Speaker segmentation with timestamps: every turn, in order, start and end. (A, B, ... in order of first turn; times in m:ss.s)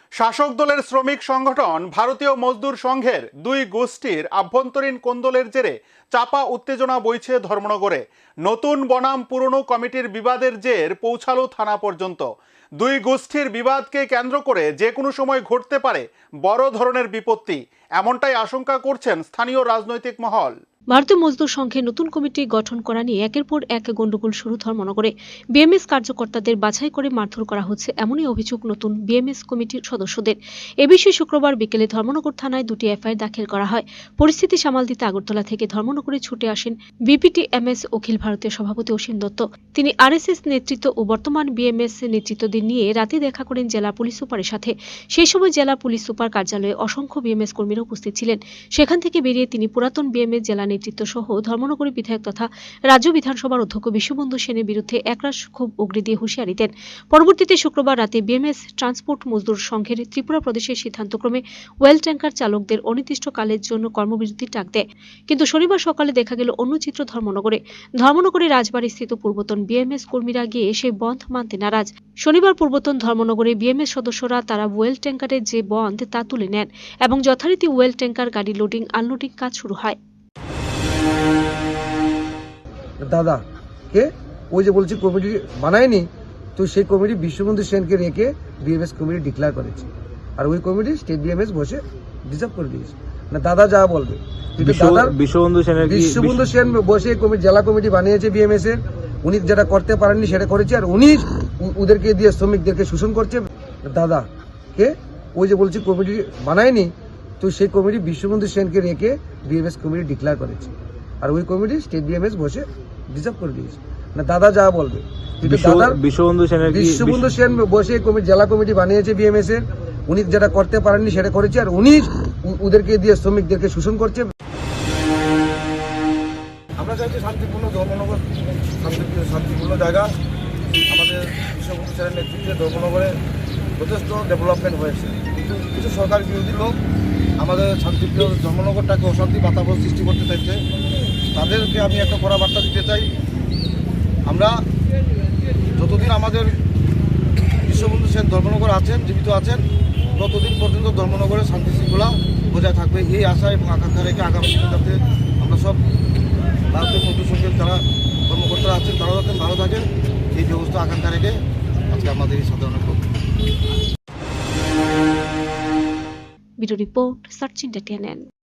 0:00.2-0:12.2 A
0:12.8-0:20.5 A
0:20.9-1:20.0 B
1:23.0-1:23.4 C
1:23.9-1:29.9 C
1:30.4-1:35.2 C
1:34.6-1:36.5 D
1:35.8-1:50.7 C
1:51.2-1:56.0 C
1:55.4-1:57.3 D
1:56.6-2:04.3 C
2:06.8-2:10.1 E
2:10.9-2:13.1 E
2:13.8-2:16.7 E
2:17.4-2:20.6 E
2:21.3-2:23.1 E
2:24.3-2:24.6 E
2:25.8-2:26.5 E
2:27.7-2:29.6 E
2:30.2-2:35.8 E
2:36.7-2:41.3 E
2:41.9-2:43.0 E
2:46.6-2:48.2 B